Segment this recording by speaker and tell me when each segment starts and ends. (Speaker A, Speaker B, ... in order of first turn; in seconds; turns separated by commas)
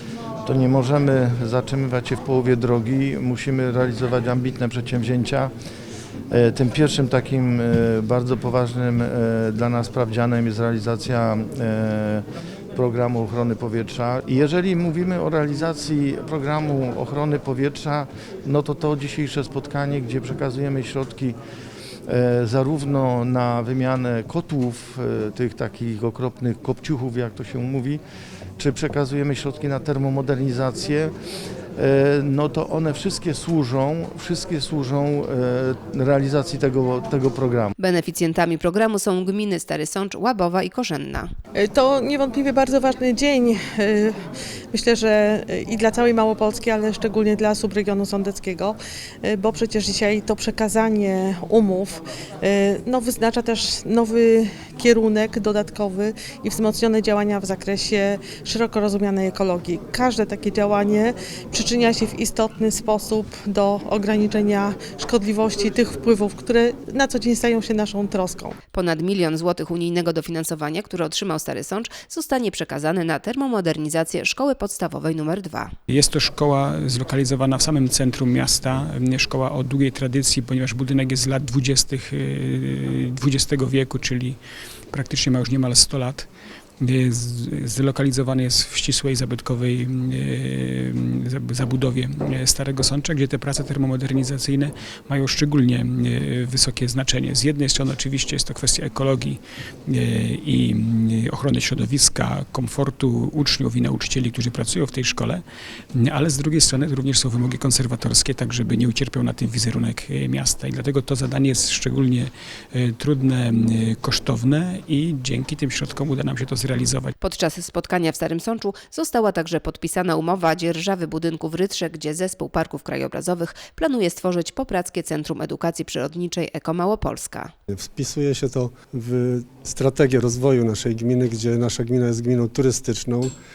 Speaker A: 0.5-5.5, Speaker A: 6.3-21.4, Speaker A: 22.1-28.0, Speaker A: 28.6-31.1, Speaker A: 31.8-37.7, Speaker B: 37.8-41.3, Speaker C: 41.5-44.1, Speaker C: 44.7-68.6, Speaker B: 68.7-75.7, Speaker D: 75.9-84.4, Speaker D: 84.9-86.3, Speaker D: 86.8-117.1, Speaker B: 117.2-127.5, Speaker E: 127.7-133.3